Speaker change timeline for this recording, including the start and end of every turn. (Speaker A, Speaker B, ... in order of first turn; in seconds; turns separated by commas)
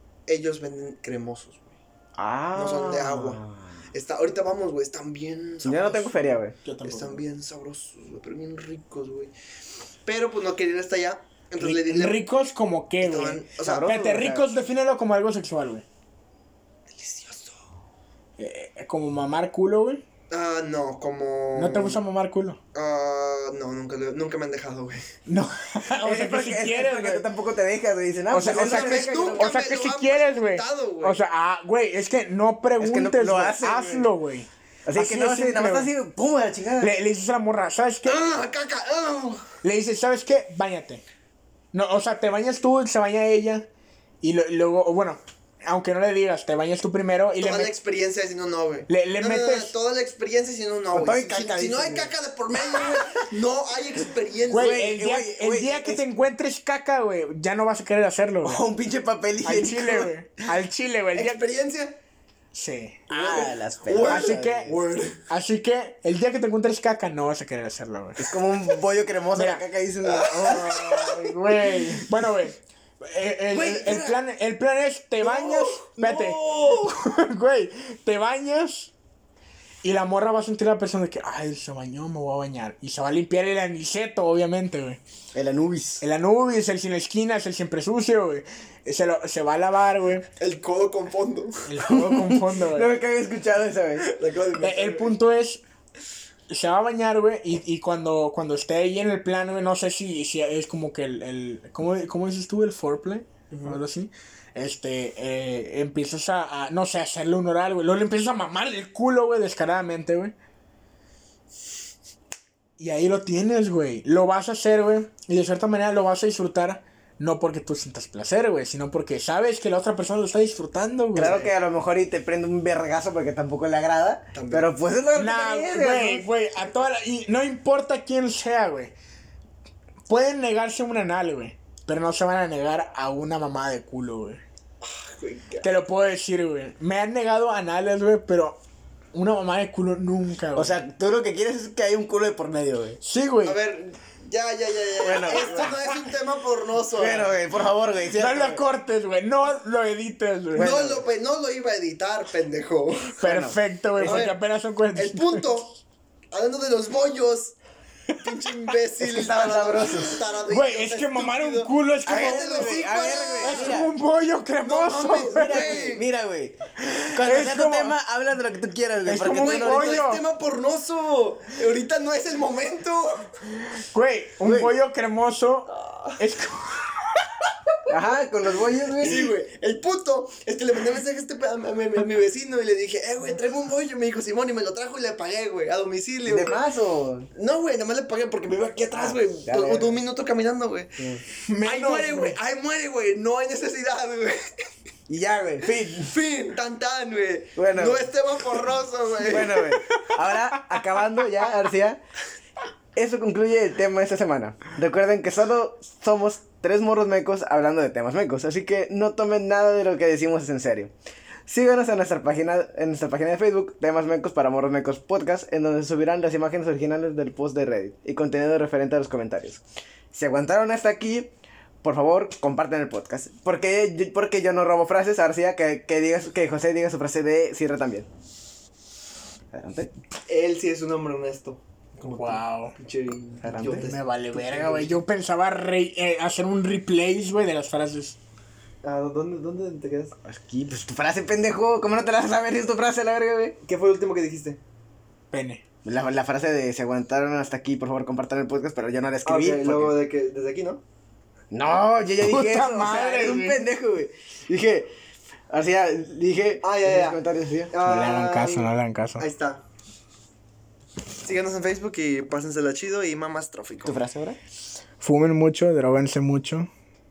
Speaker A: 0.3-1.8, Speaker B: 2.2-3.8, Speaker A: 2.5-9.3, Speaker B: 5.6-6.5, Speaker C: 6.6-7.2, Speaker A: 10.1-12.2, Speaker C: 11.6-15.8, Speaker A: 13.0-13.9, Speaker B: 13.6-14.4, Speaker A: 16.9-17.6, Speaker C: 18.4-20.1, Speaker A: 20.3-22.0, Speaker C: 21.6-22.6, Speaker A: 22.7-25.0, Speaker C: 25.3-27.2, Speaker B: 26.0-29.5, Speaker C: 28.3-35.9, Speaker A: 28.4-31.2, Speaker B: 32.8-34.1, Speaker B: 34.9-36.9, Speaker C: 36.8-38.3, Speaker A: 38.0-39.5, Speaker C: 39.6-41.0, Speaker C: 41.7-43.7, Speaker C: 44.2-47.7, Speaker A: 47.4-54.9, Speaker C: 48.9-49.7, Speaker B: 50.9-52.1, Speaker C: 54.5-58.6, Speaker B: 54.5-56.0, Speaker B: 58.4-60.1, Speaker C: 59.4-61.4, Speaker A: 61.1-62.0, Speaker C: 62.5-63.1, Speaker B: 63.1-64.8, Speaker A: 63.1-65.2, Speaker C: 64.0-64.7, Speaker C: 65.3-68.3, Speaker B: 68.2-70.8, Speaker C: 69.3-69.6, Speaker A: 70.0-71.3, Speaker C: 70.2-78.9, Speaker A: 73.5-74.2, Speaker A: 75.2-77.0, Speaker C: 79.8-85.0, Speaker B: 85.3-86.0, Speaker C: 86.0-90.3, Speaker A: 90.4-91.7, Speaker C: 91.7-92.9, Speaker B: 91.8-94.1, Speaker A: 94.0-95.1, Speaker C: 94.6-95.6, Speaker C: 96.5-110.3, Speaker A: 103.5-103.8, Speaker C: 112.8-121.5, Speaker B: 121.1-126.3, Speaker A: 124.3-124.7, Speaker C: 125.2-128.9, Speaker C: 130.1-134.4, Speaker A: 134.8-135.7, Speaker C: 135.6-138.6, Speaker C: 139.1-140.8, Speaker B: 140.6-143.0, Speaker C: 143.0-143.6, Speaker A: 143.4-147.3, Speaker B: 145.0-145.8, Speaker C: 145.4-145.8, Speaker B: 147.0-148.6, Speaker C: 148.2-150.7, Speaker B: 150.5-151.0, Speaker A: 150.6-153.2, Speaker B: 153.2-154.3, Speaker C: 153.2-155.7, Speaker A: 154.0-154.3, Speaker A: 154.9-155.7, Speaker A: 156.3-157.6, Speaker A: 158.2-163.8, Speaker B: 159.0-160.2, Speaker C: 160.5-162.8, Speaker B: 162.1-163.9, Speaker C: 163.4-165.8, Speaker A: 164.6-166.0, Speaker B: 165.3-166.6, Speaker B: 167.1-170.1, Speaker C: 167.2-167.9, Speaker C: 169.0-170.2, Speaker A: 169.3-173.3, Speaker C: 173.9-177.1, Speaker B: 174.4-174.7, Speaker A: 175.7-176.2, Speaker B: 177.9-179.3, Speaker A: 179.0-186.6, Speaker B: 186.2-187.3, Speaker A: 187.3-191.0, Speaker B: 188.9-190.0, Speaker B: 191.0-191.2, Speaker C: 191.4-192.4, Speaker A: 191.6-194.4, Speaker B: 195.1-196.1, Speaker A: 195.6-199.8, Speaker B: 197.6-198.1, Speaker B: 199.3-202.0, Speaker C: 199.9-200.2, Speaker B: 202.9-210.9, Speaker B: 211.5-228.1, Speaker B: 229.5-229.9, Speaker A: 230.3-235.0, Speaker C: 232.0-232.7, Speaker B: 233.4-233.8, Speaker C: 233.6-238.2, Speaker A: 238.8-240.1, Speaker B: 240.2-243.6, Speaker A: 243.6-244.6, Speaker C: 245.3-245.6, Speaker B: 245.8-249.9, Speaker A: 249.2-250.8, Speaker B: 251.5-254.9, Speaker C: 252.2-253.6, Speaker B: 255.5-257.7, Speaker A: 256.6-257.2, Speaker A: 257.7-258.7, Speaker C: 257.9-259.2, Speaker A: 259.2-259.6, Speaker A: 261.2-264.0, Speaker B: 263.8-264.4, Speaker C: 265.0-266.7